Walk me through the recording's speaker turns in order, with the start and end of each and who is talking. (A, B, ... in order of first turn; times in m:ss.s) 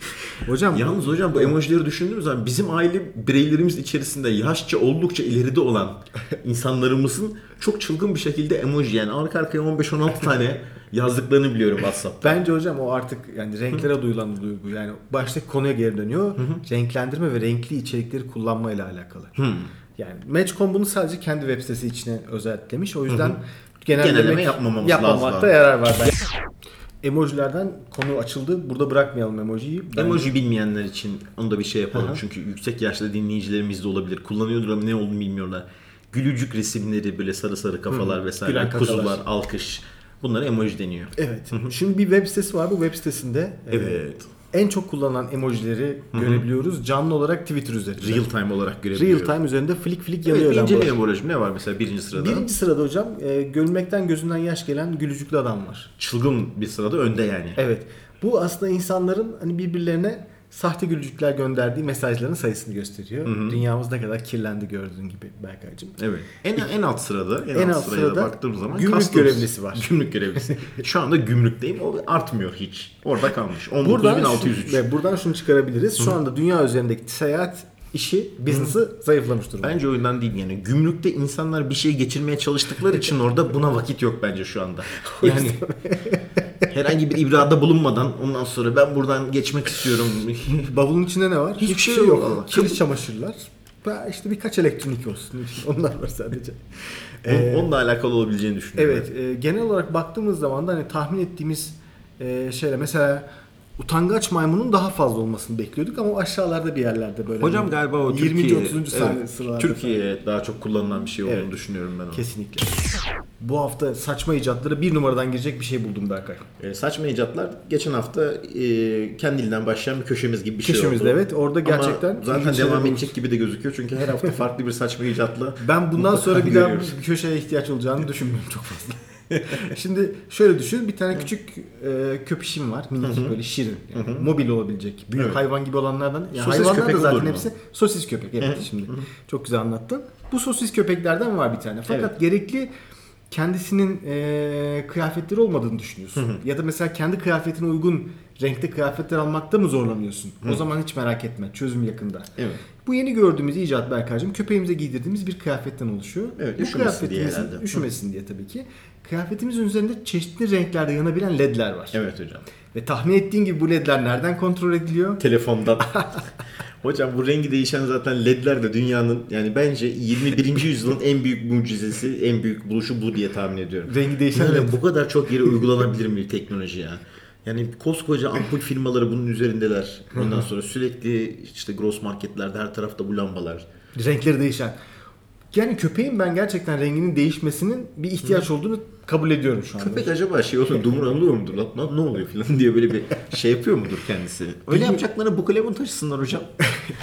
0:00.4-0:01.6 A
0:00.7-0:12.4 B
0:12.2-0:19.4 A
0:19.4-0:19.7 B
0:20.0-0:26.2 A
0:23.1-0:23.4 B
0:24.0-0:25.5 B
0:27.0-0:30.3 A
0:29.9-0:41.7 B
0:31.9-0:32.2 A
0:37.9-0:39.2 A
0:41.2-0:44.0 A
0:43.7-0:44.3 B
0:44.5-0:48.2 A
0:46.1-0:46.4 B
0:48.0-0:49.4 B
0:48.9-0:51.0 A
0:50.2-0:52.5 B
0:52.1-0:55.9 A
0:56.0-0:57.6 B
0:57.6-1:06.0 A
1:03.2-1:03.6 B
1:06.0-1:14.8 B
1:07.5-1:09.9 A
1:13.8-1:19.7 A
1:18.5-1:18.8 B
1:19.6-1:25.6 B
1:25.2-1:26.2 A
1:26.7-1:30.7 B
1:30.4-1:37.7 A
1:31.6-1:32.8 B
1:37.2-1:39.1 B
1:38.8-1:43.2 A
1:43.8-1:50.0 A
1:47.4-1:52.2 B
1:51.2-1:51.5 A
1:52.1-1:52.8 A
1:53.4-1:56.4 A
1:56.6-2:07.0 B
2:00.6-2:03.1 A
2:05.6-2:22.7 A
2:13.0-2:13.4 B
2:13.9-2:14.3 B
2:15.1-2:15.4 B
2:16.3-2:17.5 B
2:18.4-2:19.0 B
2:23.3-2:32.3 A
2:26.2-2:26.4 B
2:32.4-2:32.6 B
2:32.8-2:42.0 A
2:36.4-2:37.8 B
2:41.9-2:42.4 B
2:42.7-2:45.2 A
2:45.2-2:46.0 B
2:45.8-2:46.2 A
2:46.8-3:03.6 B
2:53.8-2:54.8 A
3:03.9-3:04.8 A
3:05.5-3:10.1 A
3:09.8-3:16.5 B
3:14.7-3:15.0 A